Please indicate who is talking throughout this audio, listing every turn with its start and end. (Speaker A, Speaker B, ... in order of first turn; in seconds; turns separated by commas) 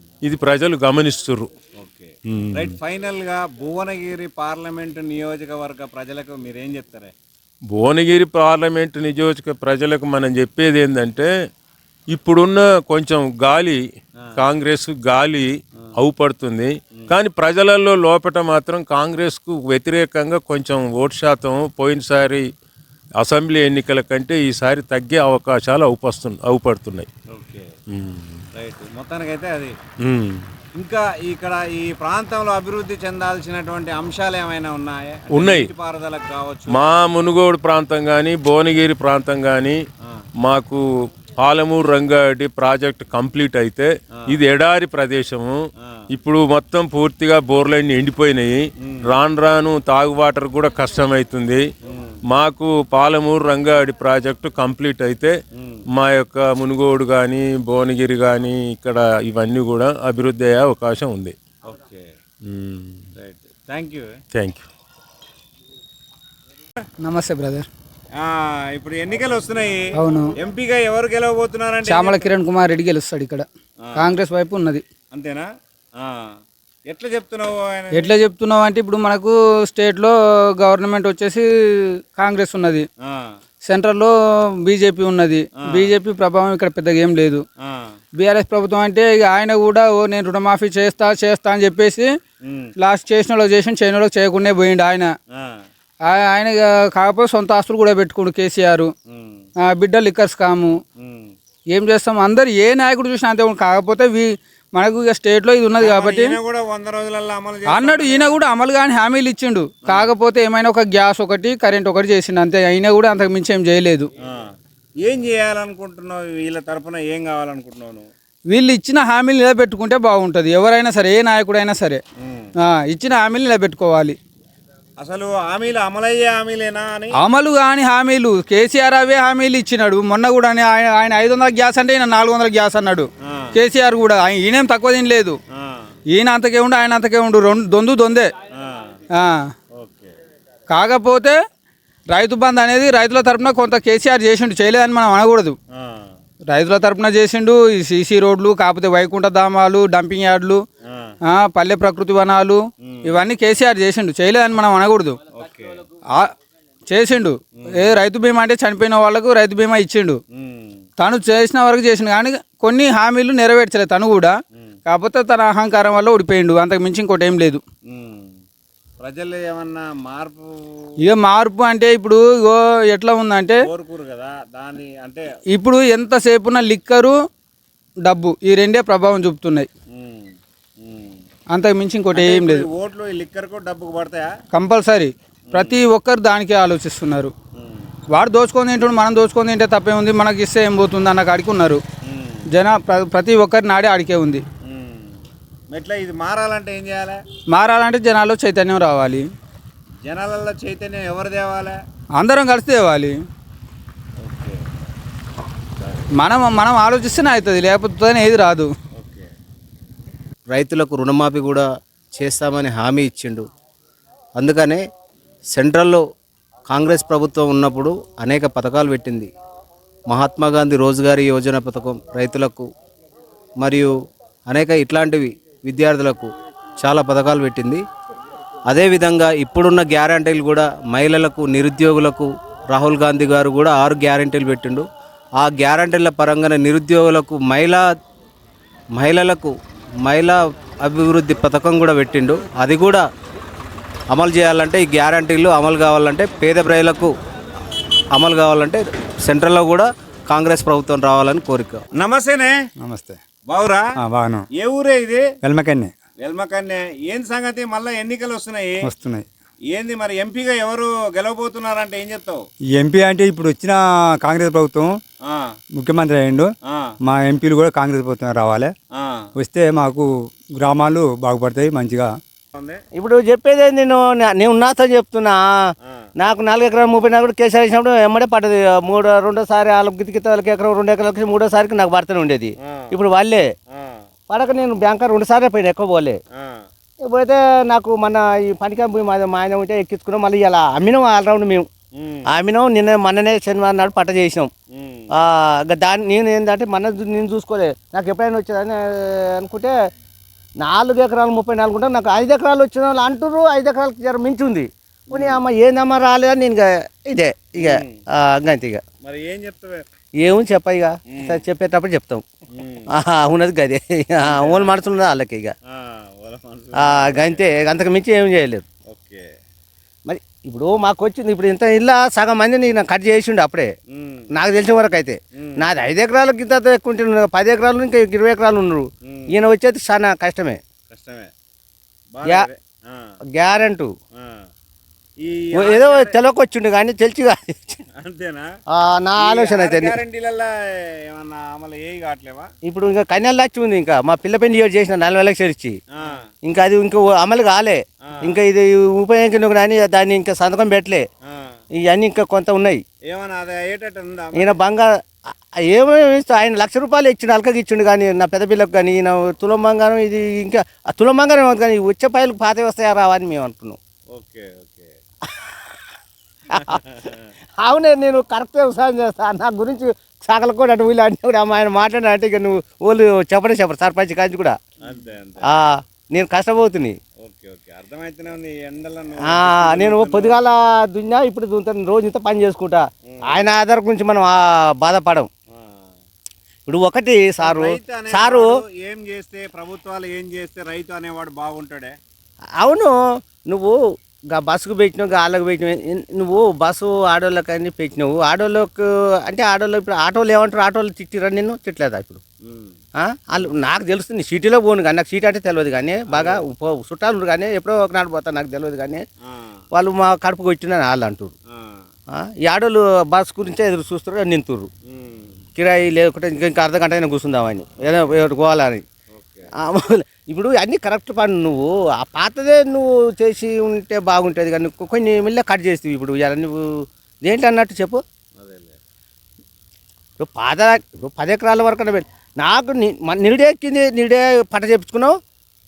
Speaker A: 0.2-1.5, Speaker B: 1.8-7.1, Speaker A: 2.3-2.8, Speaker A: 7.7-11.3, Speaker A: 12.1-13.8, Speaker A: 14.4-22.4, Speaker A: 23.2-27.1, Speaker B: 27.3-27.7, Speaker A: 27.9-28.4, Speaker B: 28.6-29.7, Speaker A: 30.0-30.4, Speaker B: 30.8-36.9, Speaker A: 35.3-35.7, Speaker A: 36.7-39.8, Speaker A: 40.4-40.8, Speaker A: 41.4-45.6, Speaker A: 46.1-51.6, Speaker B: 51.9-52.2, Speaker A: 52.3-55.3, Speaker B: 55.6-55.8, Speaker A: 55.9-61.3, Speaker B: 61.7-62.1, Speaker A: 62.5-63.1, Speaker B: 63.2-64.1, Speaker A: 64.3-64.7, Speaker C: 67.0-67.7, Speaker B: 68.2-69.8, Speaker C: 70.0-70.3, Speaker B: 70.4-72.3, Speaker C: 71.9-73.5, Speaker B: 73.8-74.2, Speaker C: 74.0-74.8, Speaker B: 75.1-75.5, Speaker B: 76.0-76.2, Speaker B: 76.9-78.3, Speaker C: 78.0-81.4, Speaker C: 82.1-82.8, Speaker B: 83.0-83.3, Speaker C: 83.7-84.1, Speaker C: 84.7-87.4, Speaker B: 85.6-86.0, Speaker B: 87.6-88.0, Speaker C: 88.2-92.1, Speaker B: 92.4-92.7, Speaker C: 92.8-95.1, Speaker B: 95.3-95.6, Speaker C: 96.1-98.9, Speaker B: 99.1-99.5, Speaker C: 99.7-100.8, Speaker B: 101.0-101.3, Speaker C: 101.8-106.3, Speaker B: 105.8-108.4, Speaker C: 107.8-114.1, Speaker B: 109.8-110.1, Speaker B: 114.2-114.5, Speaker B: 115.0-118.1, Speaker C: 118.5-122.0, Speaker B: 122.2-122.5, Speaker C: 122.7-124.2, Speaker B: 125.0-127.1, Speaker C: 127.2-133.1, Speaker C: 133.6-135.3, Speaker B: 135.6-135.9, Speaker C: 136.1-138.3, Speaker B: 138.5-138.9, Speaker B: 139.8-140.1, Speaker C: 140.7-141.3, Speaker C: 142.2-145.5, Speaker B: 145.7-146.1, Speaker C: 146.5-150.6, Speaker B: 150.9-151.1, Speaker C: 151.4-152.6, Speaker B: 152.8-153.2, Speaker C: 153.1-155.2, Speaker B: 155.3-155.8, Speaker C: 156.9-157.3, Speaker B: 157.6-158.0, Speaker C: 157.9-160.2, Speaker B: 160.3-160.8, Speaker C: 161.0-164.3, Speaker C: 164.9-167.6, Speaker B: 167.9-168.4, Speaker B: 169.0-170.5, Speaker C: 171.1-173.5, Speaker B: 173.6-175.3, Speaker C: 175.6-177.2, Speaker C: 178.1-179.7, Speaker B: 179.9-181.2, Speaker C: 181.6-182.6, Speaker B: 182.1-184.3, Speaker C: 184.5-185.1, Speaker B: 185.5-185.9, Speaker C: 185.9-187.3, Speaker B: 187.6-187.9, Speaker C: 188.1-191.8, Speaker B: 192.1-192.4, Speaker C: 192.6-194.4, Speaker B: 194.7-195.2, Speaker B: 195.7-197.2, Speaker C: 197.5-199.2, Speaker B: 200.1-201.8, Speaker C: 202.2-203.2, Speaker B: 204.2-204.6, Speaker C: 206.2-208.7, Speaker B: 208.9-209.3, Speaker D: 210.6-211.5, Speaker E: 210.6-211.6, Speaker E: 212.2-213.2, Speaker D: 212.3-213.4, Speaker D: 214.5-214.8, Speaker D: 215.6-216.0, Speaker D: 216.8-219.3, Speaker E: 216.9-217.6, Speaker E: 218.2-218.9, Speaker E: 220.2-220.6, Speaker D: 220.3-222.6, Speaker E: 221.8-222.5, Speaker D: 224.6-226.3, Speaker E: 226.9-227.4, Speaker D: 226.9-227.8, Speaker D: 228.8-231.0, Speaker E: 229.4-230.2, Speaker E: 231.2-232.1, Speaker D: 231.6-232.2, Speaker E: 232.7-233.2, Speaker D: 233.2-234.8, Speaker E: 234.0-234.3, Speaker E: 235.6-237.7, Speaker D: 236.1-237.7, Speaker E: 239.0-239.4, Speaker E: 240.9-241.7, Speaker D: 241.2-242.5, Speaker E: 242.6-242.9, Speaker E: 244.2-246.6, Speaker D: 244.4-247.1, Speaker E: 248.2-248.6, Speaker D: 248.3-248.7, Speaker E: 249.3-249.6, Speaker D: 249.3-249.8, Speaker E: 250.3-251.6, Speaker D: 251.2-251.7, Speaker B: 252.0-252.5, Speaker F: 252.8-253.2, Speaker B: 253.5-253.8, Speaker F: 254.0-254.4, Speaker B: 254.6-255.2, Speaker F: 255.4-255.9, Speaker B: 256.2-258.8, Speaker F: 258.8-259.2, Speaker B: 259.7-262.4, Speaker F: 262.8-264.9, Speaker F: 265.8-266.5, Speaker F: 267.1-268.7, Speaker B: 268.9-269.2, Speaker F: 269.4-272.1, Speaker B: 272.6-272.8, Speaker E: 273.0-275.4, Speaker E: 276.2-283.5, Speaker B: 282.6-283.0, Speaker B: 283.7-284.0, Speaker E: 284.3-286.2, Speaker B: 286.3-286.6, Speaker E: 287.0-291.7, Speaker B: 291.9-292.3, Speaker E: 292.3-294.5, Speaker B: 294.7-295.1, Speaker E: 295.2-299.7, Speaker E: 300.6-308.8, Speaker B: 305.1-305.4, Speaker B: 307.6-308.0, Speaker B: 309.0-309.8, Speaker E: 310.2-312.2, Speaker B: 311.1-311.4, Speaker B: 312.5-312.9, Speaker E: 312.9-315.6, Speaker B: 314.2-314.7, Speaker B: 315.7-317.5, Speaker E: 316.8-318.6, Speaker B: 318.9-319.3, Speaker E: 320.1-323.7, Speaker B: 323.9-324.3, Speaker E: 324.3-330.6, Speaker B: 325.4-325.8, Speaker B: 329.0-329.4, Speaker B: 330.9-331.3, Speaker B: 332.1-333.1, Speaker E: 333.3-333.9, Speaker B: 335.2-336.1, Speaker E: 335.6-337.8, Speaker B: 338.0-338.5, Speaker E: 338.7-340.0, Speaker B: 339.2-340.5, Speaker B: 341.1-342.5, Speaker E: 342.7-345.8, Speaker E: 346.4-351.1, Speaker B: 348.1-348.4, Speaker B: 351.3-351.6, Speaker E: 351.8-352.8, Speaker B: 353.1-354.6, Speaker E: 354.4-354.9, Speaker E: 355.6-363.8, Speaker B: 364.1-364.9, Speaker B: 366.5-367.3, Speaker E: 366.5-366.8, Speaker E: 367.6-374.6, Speaker B: 374.8-375.5, Speaker E: 375.5-376.9, Speaker B: 377.2-380.4, Speaker E: 379.3-385.3, Speaker B: 383.1-383.5, Speaker E: 386.7-388.5, Speaker B: 387.4-392.0, Speaker E: 392.6-393.7, Speaker E: 394.3-402.2, Speaker B: 402.4-402.8, Speaker E: 403.0-409.0, Speaker B: 406.1-406.4, Speaker B: 409.2-409.6, Speaker E: 409.7-411.3, Speaker B: 411.5-411.9, Speaker E: 412.2-414.7, Speaker B: 414.9-415.4, Speaker E: 415.6-418.8, Speaker B: 419.1-419.5, Speaker E: 419.6-426.7, Speaker E: 427.2-428.0, Speaker B: 428.4-428.8, Speaker E: 430.2-435.1